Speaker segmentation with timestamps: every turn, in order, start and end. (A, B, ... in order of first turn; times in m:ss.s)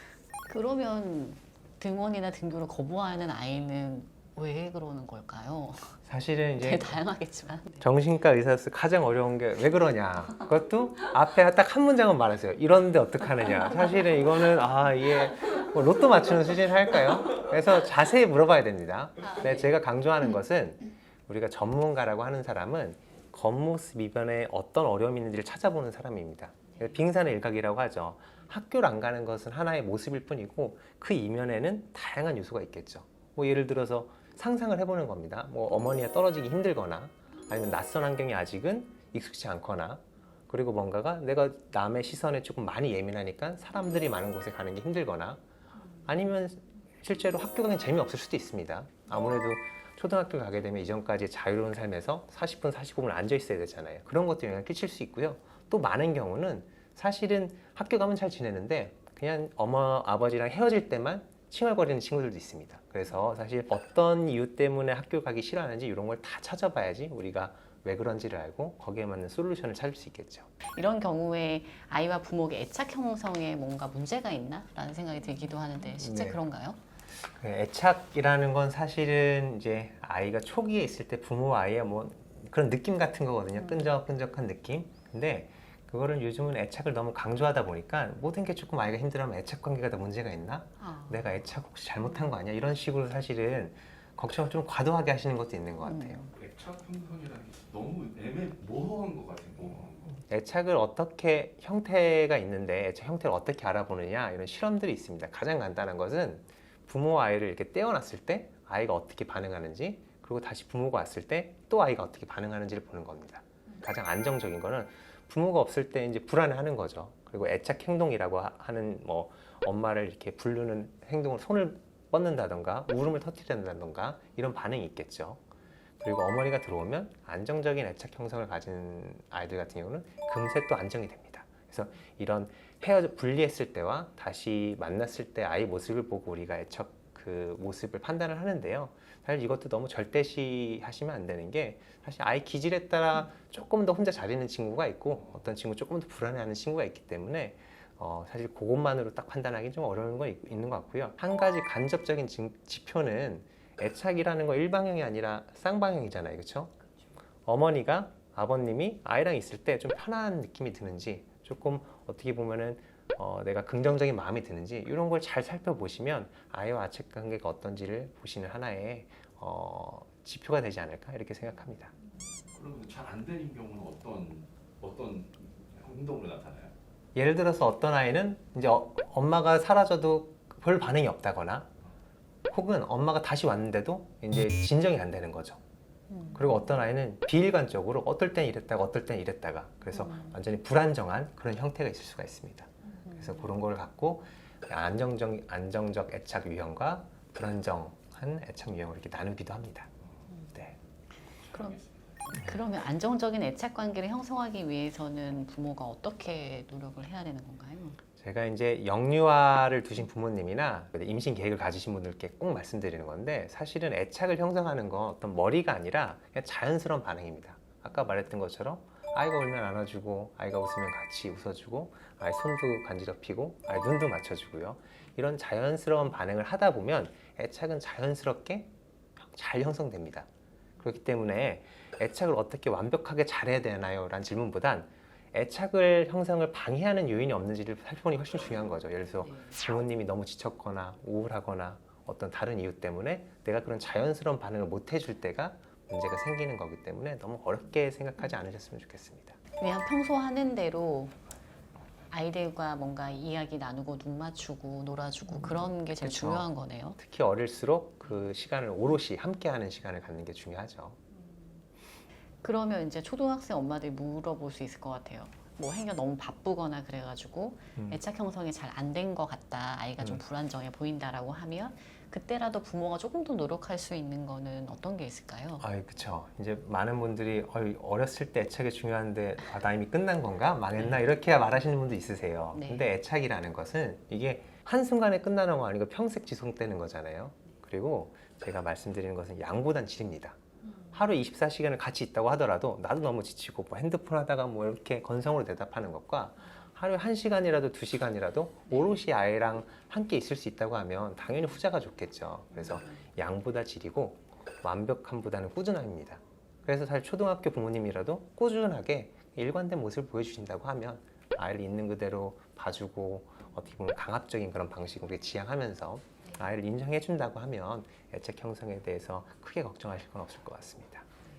0:00.5-0:06.0 A
0:06.0-0:07.0 B
0:06.6-0:07.8 A
0:07.8-0:45.4 B
0:46.0-1:10.5 B
1:10.7-1:16.8 A
1:16.0-1:16.4 B
1:17.2-1:36.2 B
1:23.6-1:23.9 A
1:30.8-1:31.4 A
1:35.8-1:36.3 A
1:36.3-1:40.2 C
1:40.3-2:05.4 B
2:06.0-2:36.7 B
2:37.4-2:51.9 B
2:52.5-2:56.7 C
2:57.1-3:01.7 B
3:02.5-3:05.6 B
3:06.1-3:06.5 A
3:06.3-3:19.9 B
3:10.0-3:10.3 A
3:12.9-3:13.4 A
3:21.5-3:28.0 A
3:21.5-3:22.0 C
3:28.2-3:50.3 B
3:50.8-4:09.4 B
4:09.6-4:11.1 A
4:12.1-4:17.0 A
4:15.4-4:21.0 B
4:21.1-4:21.6 A
4:22.4-4:35.6 A
4:35.6-4:50.4 B
4:42.5-4:42.8 A
4:50.9-5:21.1 B
5:02.6-5:03.0 A